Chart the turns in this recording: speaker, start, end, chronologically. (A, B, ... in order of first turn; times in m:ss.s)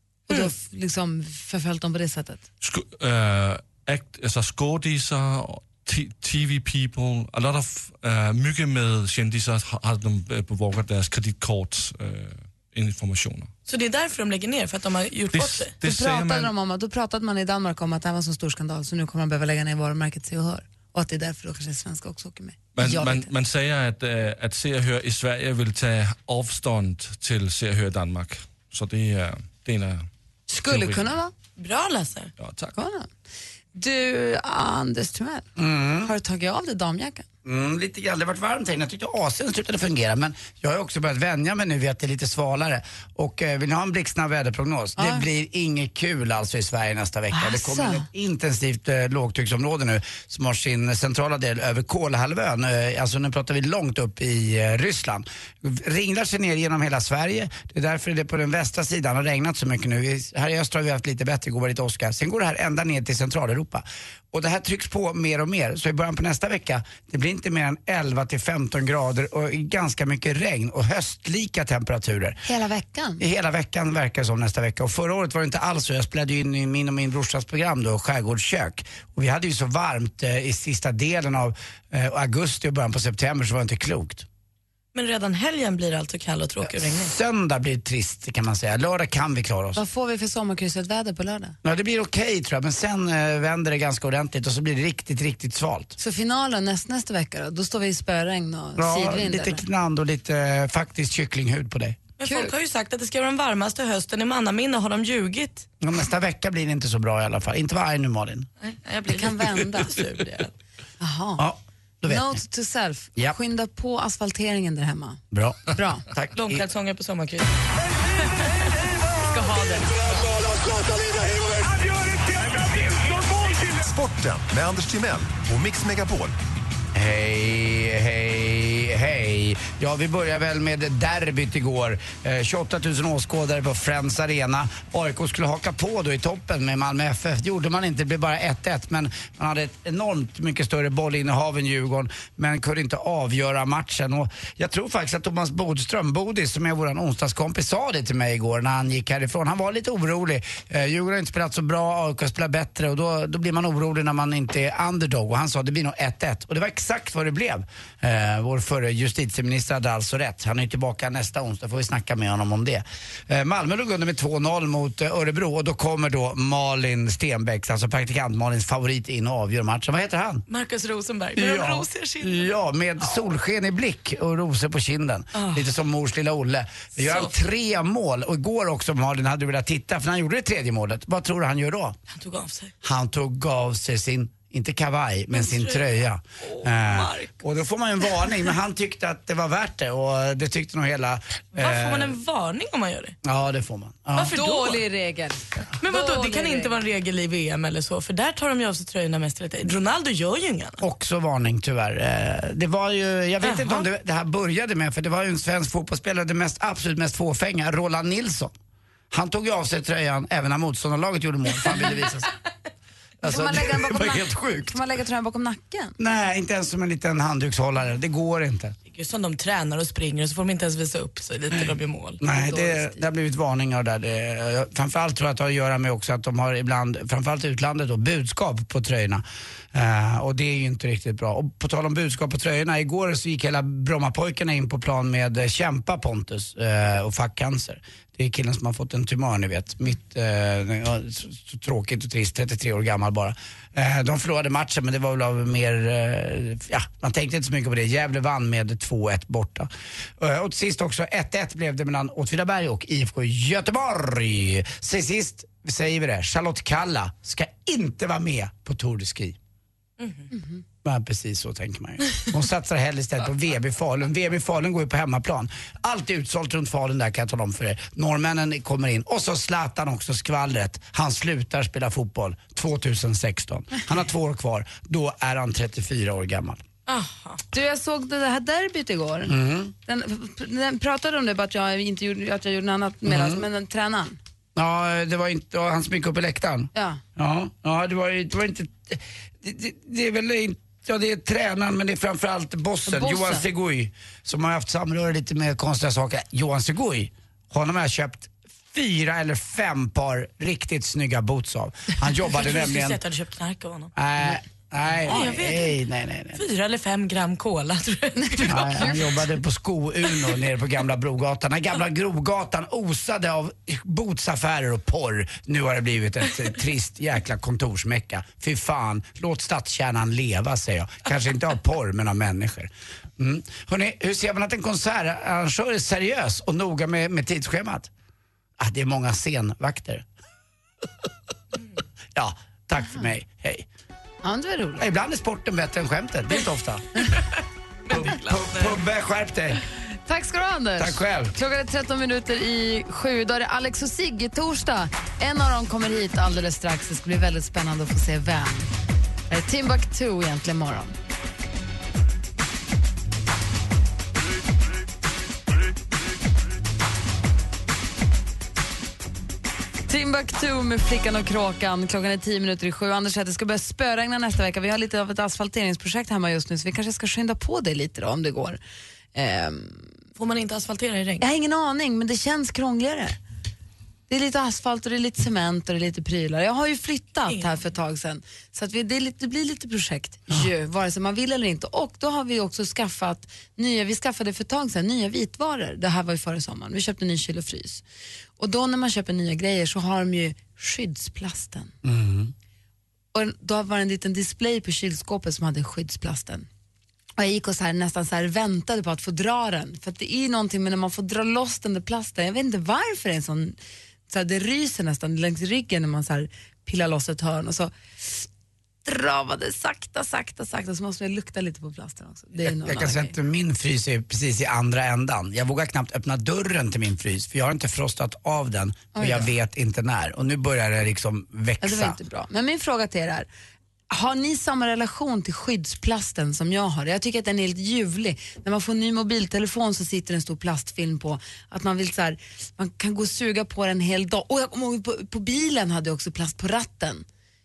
0:00.3-0:02.4 A
0:02.6-0:13.5 B
0:13.7-0:15.7 C
0:15.3-0:16.5 B
0:15.8-0:23.3 A
0:22.8-0:30.1 B
0:30.5-0:31.3 A
0:30.6-0:31.1 B
0:31.6-0:32.3 C
0:32.4-0:32.7 B
0:32.7-0:33.1 A
0:33.8-0:35.5 A
0:35.6-0:36.1 D
0:36.0-0:37.2 A
0:37.4-1:12.4 D
0:45.0-0:45.3 A
0:47.3-0:48.1 A
1:12.5-1:13.2 A
1:13.2-1:24.3 D
1:24.9-1:27.1 C
1:26.7-1:29.8 D
1:29.8-1:31.6 A
1:31.6-1:36.0 D
1:36.0-1:39.6 A
1:38.8-1:42.0 D
1:42.2-1:45.7 C
1:42.2-1:42.5 A
1:45.8-1:48.5 D
1:48.6-1:50.5 C
1:49.1-1:50.0 A
1:51.0-1:51.5 A
1:51.4-1:52.4 D
1:52.1-1:55.2 A
1:55.3-1:56.6 D
1:55.7-1:56.0 A
1:56.4-1:57.5 C
1:58.2-1:58.5 C
1:59.3-1:59.9 A
2:00.5-2:06.3 E
2:06.9-2:50.4 D
2:50.5-2:52.5 C
2:51.4-3:02.0 D
2:55.4-2:55.6 C
2:57.0-2:57.4 C
3:02.1-3:02.7 C
3:02.8-3:12.2 D
3:05.3-3:07.3 C
3:11.6-3:13.2 C
3:13.2-3:14.4 D
3:14.2-3:14.8 C
3:14.3-3:16.8 A
3:15.8-3:20.8 C
3:20.8-3:28.5 D
3:23.4-3:23.9 C
3:29.1-3:32.3 D
3:33.2-3:34.8 D
3:33.2-3:36.0 A
3:36.0-3:38.8 D
3:38.9-3:42.2 C
3:42.2-4:19.4 D
3:42.4-3:43.0 A
4:20.0-4:20.3 C
4:20.8-4:36.6 D
4:36.9-4:37.4 C
4:37.5-4:44.2 A
4:39.3-4:39.7 D
4:43.1-4:43.4 D
4:44.6-5:03.0 D
4:46.7-4:47.0 A
4:52.9-4:53.5 A
5:02.3-5:03.9 C
5:04.0-5:06.4 D
5:05.0-5:05.8 C
5:06.4-5:09.1 C
5:08.2-5:09.2 A
5:08.5-5:27.9 D
5:28.6-5:30.1 D
5:32.2-5:33.7 D
5:34.2-5:34.9 A
5:34.8-5:37.0 D
5:37.1-5:38.8 C
5:37.9-5:39.6 D
5:40.1-5:48.7 A
5:40.8-5:41.4 D
5:49.3-5:50.9 A
5:59.9-6:08.6 A
6:09.1-6:09.9 A
6:10.2-6:11.2 C
6:11.2-6:13.2 A
6:14.1-6:27.8 A
6:17.3-6:17.6 C
6:28.4-6:31.8 A
6:31.8-6:32.3 D
6:33.1-6:36.5 A
6:37.2-6:43.6 A
6:44.1-6:48.3 A
6:48.8-6:53.2 A
6:52.4-7:02.0 D
6:59.0-6:59.3 A
7:01.6-7:03.3 A
7:03.9-7:17.0 A